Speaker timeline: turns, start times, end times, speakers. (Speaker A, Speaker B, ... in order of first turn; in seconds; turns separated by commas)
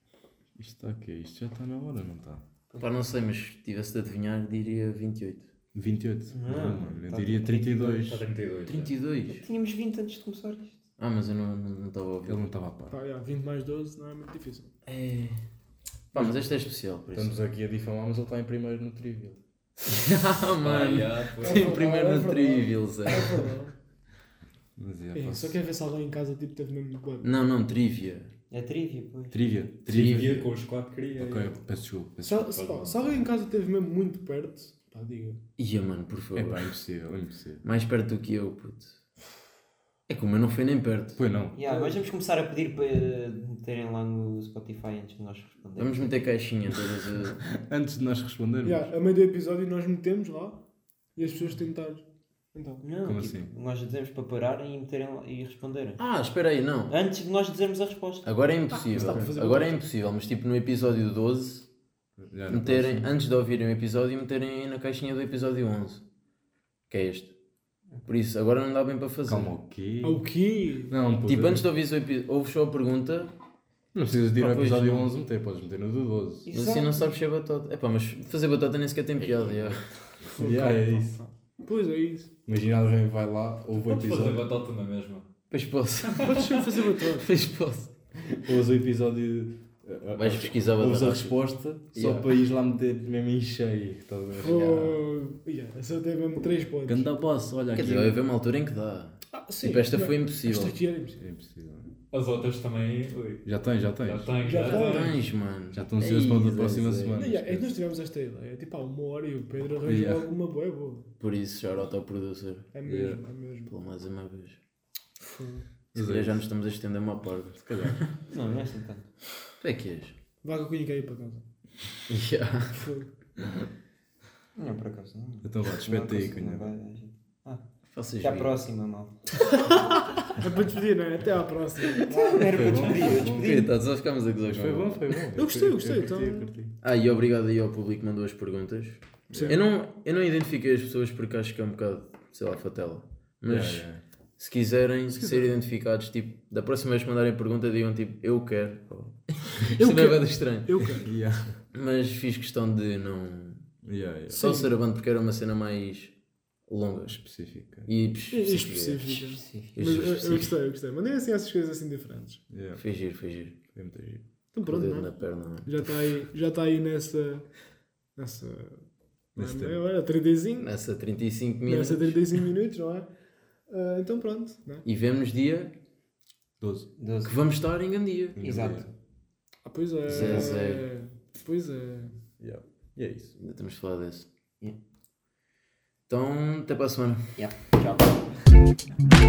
Speaker A: 0.6-2.4, Speaker B: 2.7-5.5, Speaker A: 5.7-8.2, Speaker C: 6.3-8.0, Speaker D: 7.8-8.9, Speaker B: 8.7-9.4, Speaker C: 9.3-10.8, Speaker B: 11.0-12.4, Speaker A: 12.2-12.9, Speaker E: 12.9-14.7, Speaker B: 14.8-15.4, Speaker B: 16.1-17.4, Speaker A: 16.1-16.4, Speaker A: 17.1-19.9, Speaker B: 19.9-23.5, Speaker D: 20.6-21.8, Speaker E: 21.4-23.7, Speaker A: 24.8-25.6, Speaker E: 25.1-27.4, Speaker B: 27.2-28.3, Speaker C: 28.5-29.4, Speaker A: 29.3-30.4, Speaker B: 29.9-30.4, Speaker D: 29.9-31.5, Speaker A: 31.1-33.1, Speaker E: 32.2-35.4, Speaker B: 35.6-36.7, Speaker A: 36.3-37.6, Speaker B: 37.6-38.9, Speaker B: 40.1-41.2, Speaker A: 41.1-41.6, Speaker C: 41.5-46.1, Speaker E: 41.6-42.0, Speaker B: 45.8-47.4, Speaker A: 47.5-48.9, Speaker E: 48.6-52.9, Speaker C: 52.8-56.0, Speaker A: 53.0-53.5, Speaker B: 56.0-57.0, Speaker C: 56.9-58.3, Speaker B: 58.2-61.7, Speaker E: 58.7-59.8, Speaker A: 58.9-59.3, Speaker A: 62.2-63.1, Speaker B: 62.5-66.0, Speaker B: 66.9-67.3, Speaker B: 68.0-69.5, Speaker A: 69.3-70.2, Speaker E: 70.0-71.0, Speaker A: 70.9-71.6, Speaker B: 71.3-73.3, Speaker A: 73.9-76.5, Speaker B: 74.3-75.1, Speaker C: 76.5-77.1, Speaker B: 76.5-79.8, Speaker A: 79.2-81.2, Speaker E: 80.3-82.3, Speaker A: 82.5-84.5, Speaker D: 83.8-85.3, Speaker B: 85.5-86.5, Speaker D: 86.0-86.3, Speaker E: 86.2-87.3, Speaker B: 87.0-87.9, Speaker A: 88.4-94.9, Speaker B: 90.2-91.3, Speaker B: 91.9-92.3, Speaker E: 94.3-97.1, Speaker A: 96.8-98.2, Speaker B: 97.7-100.8, Speaker E: 99.3-101.2, Speaker A: 101.2-101.9, Speaker D: 102.1-103.5, Speaker A: 103.4-104.6, Speaker D: 104.0-105.2, Speaker E: 104.4-105.2, Speaker B: 104.6-107.2, Speaker A: 105.7-107.8, Speaker E: 107.2-111.1, Speaker A: 109.8-110.3, Speaker B: 111.2-112.7, Speaker E: 112.7-113.7, Speaker A: 112.8-113.2, Speaker B: 113.7-114.6, Speaker E: 115.2-115.7, Speaker A: 115.9-116.4, Speaker B: 115.9-118.1, Speaker A: 117.5-118.1, Speaker C: 118.3-119.1, Speaker B: 119.6-120.2, Speaker E: 120.4-121.5, Speaker B: 122.1-122.9, Speaker E: 122.7-123.1, Speaker C: 124.5-127.6, Speaker A: 125.4-126.7, Speaker B: 127.9-128.6, Speaker C: 128.2-129.3, Speaker E: 130.3-133.0, Speaker C: 132.1-133.7, Speaker A: 132.5-133.6, Speaker B: 133.0-135.2, Speaker A: 134.5-136.8, Speaker E: 135.3-136.5, Speaker B: 136.8-143.9, Speaker E: 139.3-139.6, Speaker A: 143.5-144.0, Speaker B: 144.4-150.8, Speaker E: 145.1-145.5, Speaker E: 149.7-151.1, Speaker A: 151.0-151.6, Speaker B: 151.7-153.7, Speaker A: 153.8-154.4, Speaker B: 154.3-156.1, Speaker E: 154.3-154.7, Speaker B: 156.7-157.2, Speaker A: 157.1-157.9, Speaker B: 157.8-160.6, Speaker E: 158.3-162.4, Speaker C: 159.3-159.8, Speaker A: 162.5-162.8, Speaker B: 162.8-163.6, Speaker A: 163.7-164.2, Speaker E: 164.5-167.5, Speaker B: 164.6-165.7, Speaker E: 168.2-170.7, Speaker A: 169.3-169.8, Speaker B: 170.6-172.4, Speaker E: 171.6-173.1, Speaker E: 173.7-174.8, Speaker B: 174.8-175.7, Speaker A: 176.6-176.9, Speaker C: 177.0-177.4, Speaker B: 177.2-178.4, Speaker A: 178.3-178.9, Speaker C: 178.4-178.8, Speaker E: 179.6-182.2, Speaker B: 180.1-180.9, Speaker A: 180.1-180.4, Speaker A: 182.4-183.3, Speaker B: 183.4-184.8, Speaker B: 186.1-187.4, Speaker C: 187.4-188.3